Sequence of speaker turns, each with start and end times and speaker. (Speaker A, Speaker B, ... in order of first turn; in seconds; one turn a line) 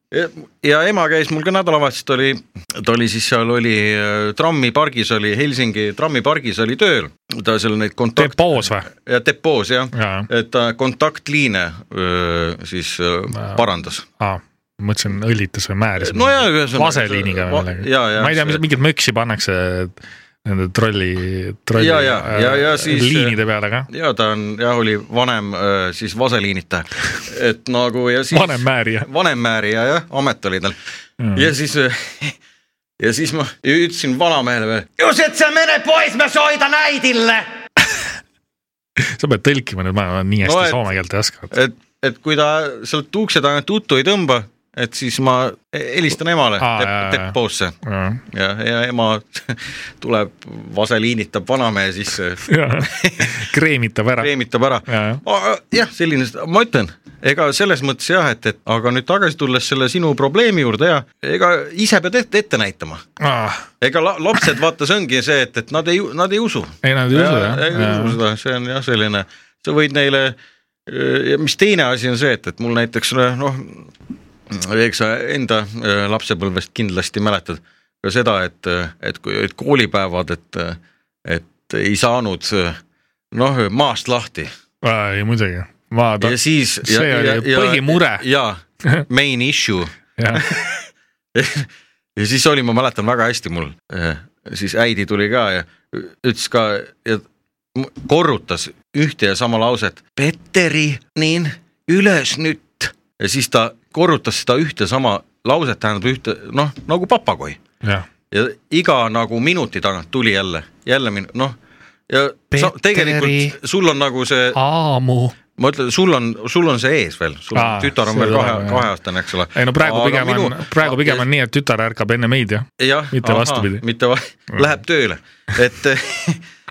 Speaker A: 0.1-14.0
Speaker B: 8.2-8.9
Speaker B: 9.9-10.3
Speaker B: 13.3-13.6
Speaker B: 14.2-23.9
Speaker A: 16.0-18.6
Speaker A: 21.8-23.4
Speaker A: 23.9-30.8
Speaker B: 28.3-29.1
Speaker B: 31.2-31.5
Speaker A: 31.3-32.3
Speaker A: 33.0-37.5
Speaker B: 39.0-41.5
Speaker A: 40.4-40.8
Speaker A: 41.5-47.8
Speaker B: 46.6-48.2
Speaker A: 48.3-53.4
Speaker B: 52.5-54.3
Speaker A: 54.2-63.0
Speaker B: 54.9-55.2
Speaker B: 63.2-63.6
Speaker A: 63.8-70.3
Speaker B: 66.8-68.2
Speaker A: 70.9-73.9
Speaker A: 74.5-82.8
Speaker A: 83.3-84.5
Speaker B: 84.8-88.2
Speaker A: 86.2-97.2
Speaker B: 90.2-90.4
Speaker A: 97.7-107.6
Speaker A: 108.3-111.5
Speaker A: 112.1-114.6
Speaker B: 112.5-113.5
Speaker B: 114.5-115.3
Speaker A: 115.6-121.2
Speaker B: 117.5-118.9
Speaker B: 119.5-123.8
Speaker A: 122.8-126.4